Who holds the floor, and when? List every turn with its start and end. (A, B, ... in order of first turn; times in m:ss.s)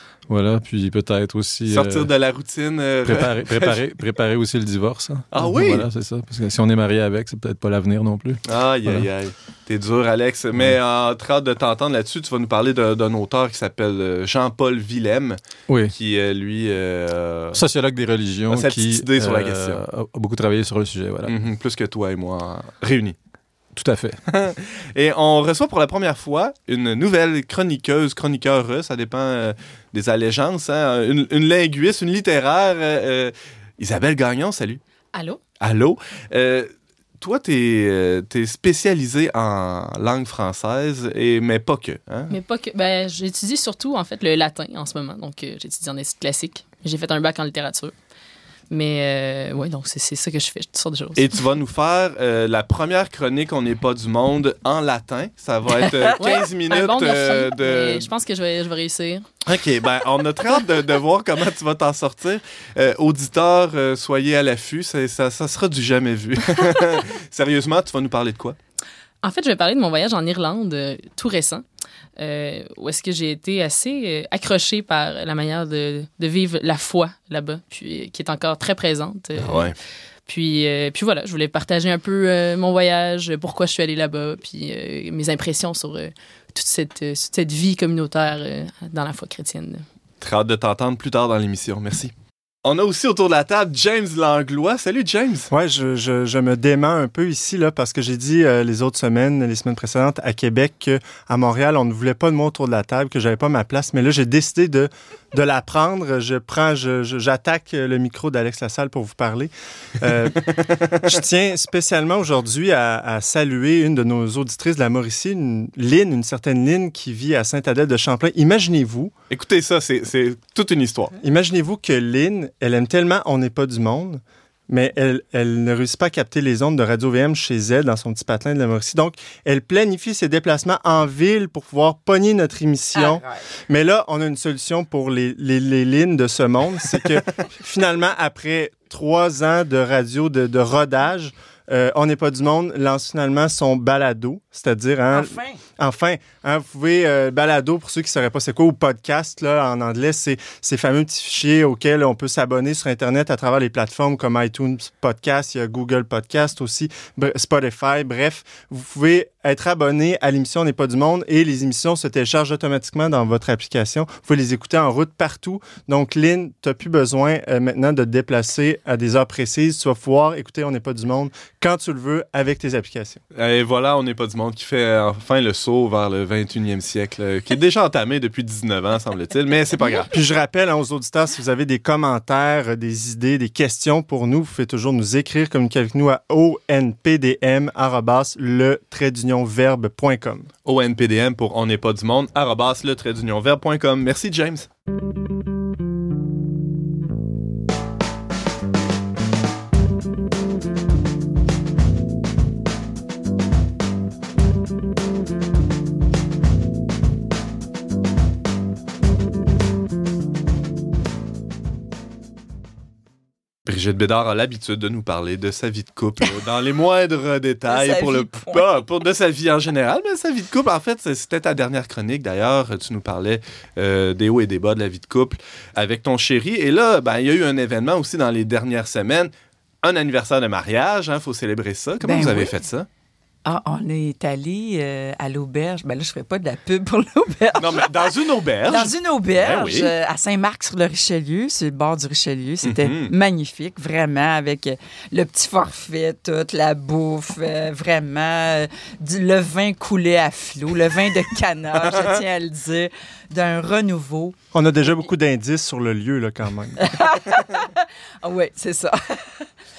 0:00.3-0:02.1 A
0:01.7-0:03.8 B
0:03.1-0:09.1 A
0:05.3-0:05.9 B
0:08.5-0:17.6 B
0:15.7-0:15.9 A
0:17.5-0:21.4 A
0:18.5-0:19.8 B
0:21.3-0:23.2 B
0:23.8-0:24.2 A
0:24.3-0:34.8 B
0:35.1-0:35.4 C
0:35.6-0:42.3 B
0:42.3-0:47.9 C
0:48.7-0:51.3 C
0:51.2-0:58.1 B
0:56.2-0:59.3 C
0:59.5-1:08.6 B
1:09.2-1:11.6 C
1:12.2-1:19.7 C
1:19.4-1:19.8 B
1:20.3-1:29.8 C
1:30.2-1:32.1 B
1:32.6-1:35.5 B
1:35.5-1:59.1 D
1:59.3-2:01.2 B
2:01.2-2:53.2 D
2:13.0-2:13.4 E
2:25.1-2:25.6 E
2:53.3-3:00.1 B
3:00.1-3:10.5 D
3:10.7-3:14.7 B
3:33.6-3:49.3 B
3:37.7-3:38.7 E
3:49.8-3:52.9 B
3:52.0-3:52.5 E
3:53.4-4:14.4 E
3:57.6-3:59.9 B
4:02.6-4:03.1 B
4:14.5-4:16.9 D
4:16.8-4:19.4 E